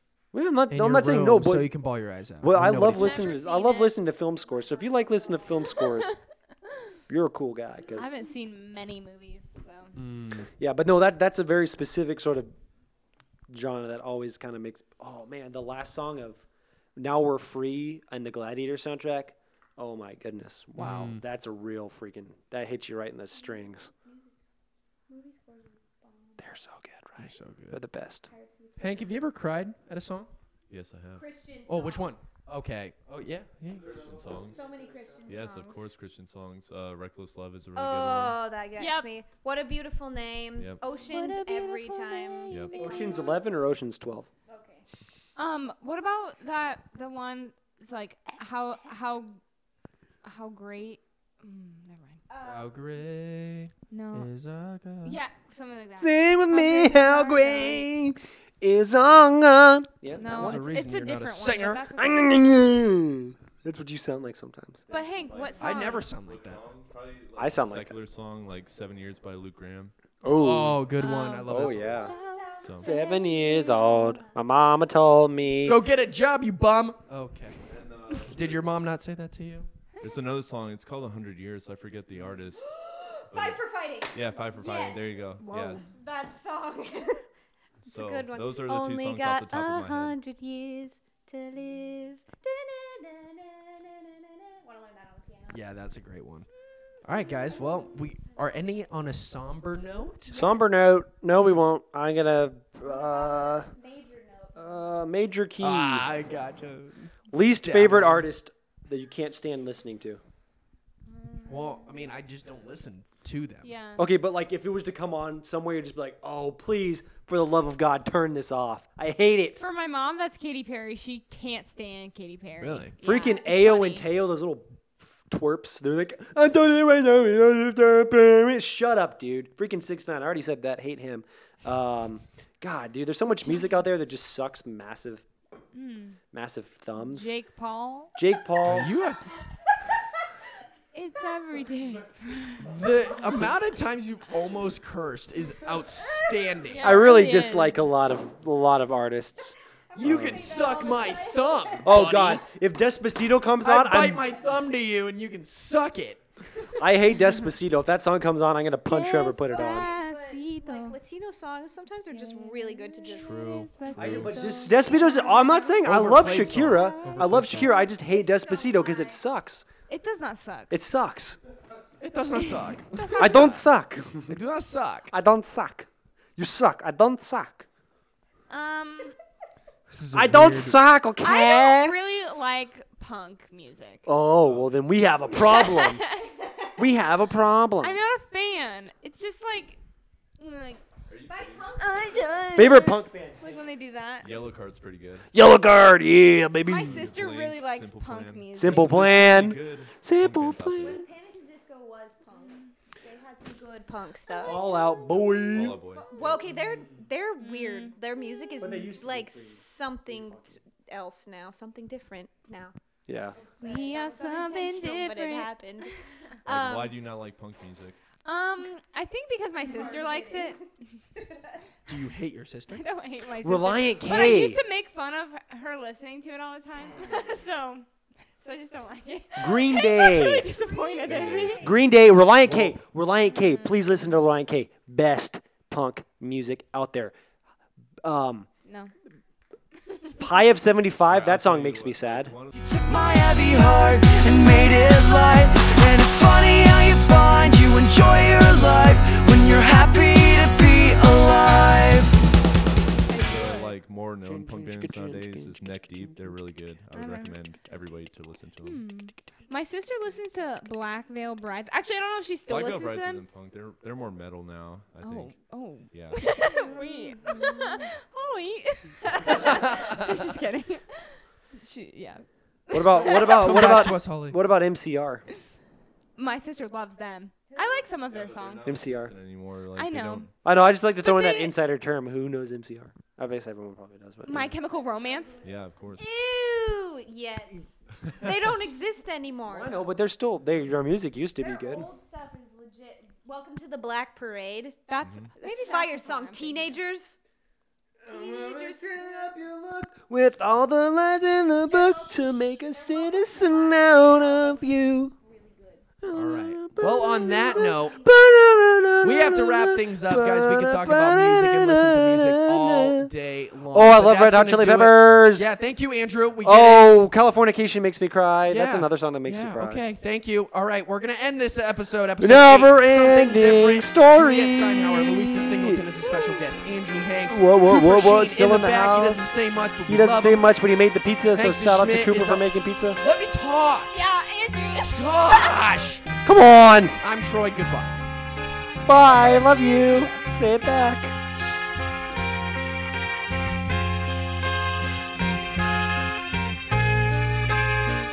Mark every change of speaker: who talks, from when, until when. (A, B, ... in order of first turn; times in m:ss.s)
0:00.3-0:01.7 A
0:00.7-0:03.2 B
0:02.4-0:06.2 A
0:02.8-0:04.0 C
0:04.5-0:05.4 D
0:07.1-0:08.1 A
0:07.9-0:10.0 C
0:10.0-0:10.5 B
0:10.6-0:12.5 A
0:13.5-0:16.4 A
0:17.0-0:23.9 A
0:20.8-0:21.2 B
0:23.3-0:24.4 D
0:25.1-0:26.4 D
0:26.4-0:28.3 A
0:27.2-0:27.8 B
0:28.3-0:29.1 D
0:28.8-0:30.3 B
0:30.7-0:31.2 E
0:31.2-0:32.4 D
0:31.7-0:34.3 B
0:33.6-0:38.4 E
0:33.9-0:35.9 D
0:37.8-0:43.7 D
0:38.8-0:39.1 C
0:40.6-0:40.8 E
0:40.9-0:43.2 C
0:42.5-0:42.8 E
0:42.7-0:44.3 A
0:44.4-0:44.8 D
0:45.4-0:49.4 C
0:50.2-0:52.2 C
0:52.3-0:52.8 D
0:52.4-0:55.2 B
0:53.9-0:54.3 C
0:55.0-0:57.8 C
0:56.0-1:00.6 A
1:00.2-1:02.4 C
1:00.2-1:01.9 B
1:02.0-1:04.9 A
1:04.9-1:05.8 D
1:04.9-1:06.1 C
1:05.3-1:09.9 E
1:05.6-1:06.6 B
1:07.4-1:08.0 A
1:10.2-1:10.9 A
1:10.3-1:12.1 B
1:11.0-1:12.5 C
1:11.5-1:12.1 A
1:11.8-1:14.4 D
1:12.6-1:12.9 E
1:12.8-1:15.8 A
1:15.6-1:17.6 B
1:17.6-1:18.7 E
1:18.2-1:19.7 B
1:20.0-1:22.7 E
1:23.2-1:25.2 D
1:23.3-1:25.8 E
1:25.4-1:25.9 C
1:25.8-1:27.3 D
1:27.9-1:30.2 E
1:27.9-1:35.6 D
1:35.5-1:36.5 B
1:37.0-1:40.3 B
1:37.3-1:38.6 D
1:40.3-1:40.7 D
1:40.3-1:43.7 A
1:42.8-1:44.9 D
1:44.6-1:46.1 A
1:45.6-1:48.3 B
1:47.3-1:50.2 A
1:51.1-1:51.8 D
1:51.5-1:53.7 B
1:53.6-1:54.0 C
1:54.0-1:59.6 A
1:59.6-2:04.0 C
2:02.6-2:03.0 B
2:03.0-2:15.2 A
2:03.0-2:04.0 D
2:13.4-2:13.8 C
2:15.7-2:16.2 C
2:16.3-2:17.3 A
2:17.0-2:18.1 C
2:18.2-2:18.9 A
2:18.6-2:19.2 B
2:20.9-2:22.7 C
2:21.2-2:21.7 D
2:22.6-2:26.9 B
2:26.7-2:27.8 C
2:26.8-2:30.4 A
2:29.9-2:31.8 D
2:30.0-2:32.4 B
2:31.8-2:34.2 A
2:33.6-2:36.2 B
2:36.8-2:39.9 A
2:38.9-2:41.0 C
2:39.5-2:43.6 D
2:42.1-2:47.9 C
2:43.1-2:44.6 B
2:43.9-2:49.6 A
2:45.8-2:47.7 B
2:47.6-2:49.2 D
2:49.9-2:50.7 C
2:50.7-2:51.4 A
2:51.5-2:51.9 E
2:52.0-2:53.7 B
2:52.3-2:53.5 C
2:53.1-2:54.4 A
2:54.3-2:55.1 B
2:55.1-2:57.7 A
2:58.5-2:59.1 C
2:59.9-3:00.8 B
3:00.1-3:02.0 A
3:01.2-3:04.1 C
3:04.1-3:06.0 A
3:04.4-3:04.8 E
3:05.4-3:06.1 C
3:06.1-3:06.8 D
3:06.8-3:08.0 A
3:07.8-3:09.8 C
3:10.4-3:10.8 C
3:11.1-3:11.9 E
3:11.3-3:12.5 D
3:11.8-3:14.3 C
3:12.6-3:13.4 A
3:14.2-3:15.3 E
3:15.3-3:17.1 A
3:16.6-3:19.1 C
3:16.8-3:21.0 E
3:18.6-3:21.0 A
3:20.8-3:25.0 D
3:24.4-3:25.8 A
3:25.1-3:26.5 E
3:25.7-3:32.8 D
3:27.4-3:28.0 C
3:28.6-3:30.6 A
3:33.1-3:33.4 A
3:33.3-3:35.9 D
3:33.6-3:35.9 C
3:36.4-3:37.0 D
3:36.4-3:38.0 E
3:38.2-3:40.6 C
3:39.6-3:40.7 D
3:41.2-3:41.6 D
3:41.9-3:42.8 B
3:42.7-3:47.9 C
3:43.4-3:44.6 A
3:47.0-3:47.3 D
3:48.4-3:51.7 C
3:49.4-3:50.6 A
3:50.6-3:51.9 D
3:51.1-3:57.1 A
3:52.5-3:52.8 E
3:53.3-3:53.8 C
3:58.0-3:58.5 A
3:58.6-3:58.9 C
4:00.2-4:02.4 A
4:01.1-4:02.6 E
4:02.5-4:12.2 F
4:13.1-4:13.8 C
4:13.1-4:18.9 E
4:14.2-4:16.5 A
4:16.9-4:17.4 C
4:18.6-4:23.2 C
4:22.5-4:26.4 E
4:25.0-4:33.7 C
4:26.7-4:27.7 D
4:29.4-4:30.0 B
4:32.7-4:35.2 A
4:33.2-4:34.4 B
4:36.2-4:38.8 C
4:37.5-4:38.1 D
4:38.1-4:40.3 E
4:38.6-4:39.1 A
4:39.8-4:40.3 C
4:40.4-4:44.5 A
4:41.0-4:41.5 C
4:44.2-4:45.4 C
4:44.6-4:49.8 D
4:45.4-4:46.1 E
4:49.5-4:51.9 A
4:51.4-4:54.8 D
4:54.9-4:56.8 C
4:55.0-4:55.3 E
4:55.4-4:57.2 D
4:58.0-5:05.1 A
4:58.1-4:59.4 D
5:01.7-5:05.8 D
5:06.0-5:13.1 A
5:06.1-5:08.0 B
5:07.3-5:08.4 D
5:09.0-5:17.0 B
5:13.7-5:15.5 A
5:16.4-5:19.8 A
5:18.5-5:30.5 B
5:22.2-5:25.9 A
5:27.3-5:29.3 A
5:29.9-5:33.0 A
5:31.3-5:33.9 B
5:33.9-5:35.6 C
5:34.9-5:36.1 B
5:36.2-5:37.0 A
5:37.0-5:38.0 B
5:38.9-5:41.2 A
5:39.2-5:40.2 C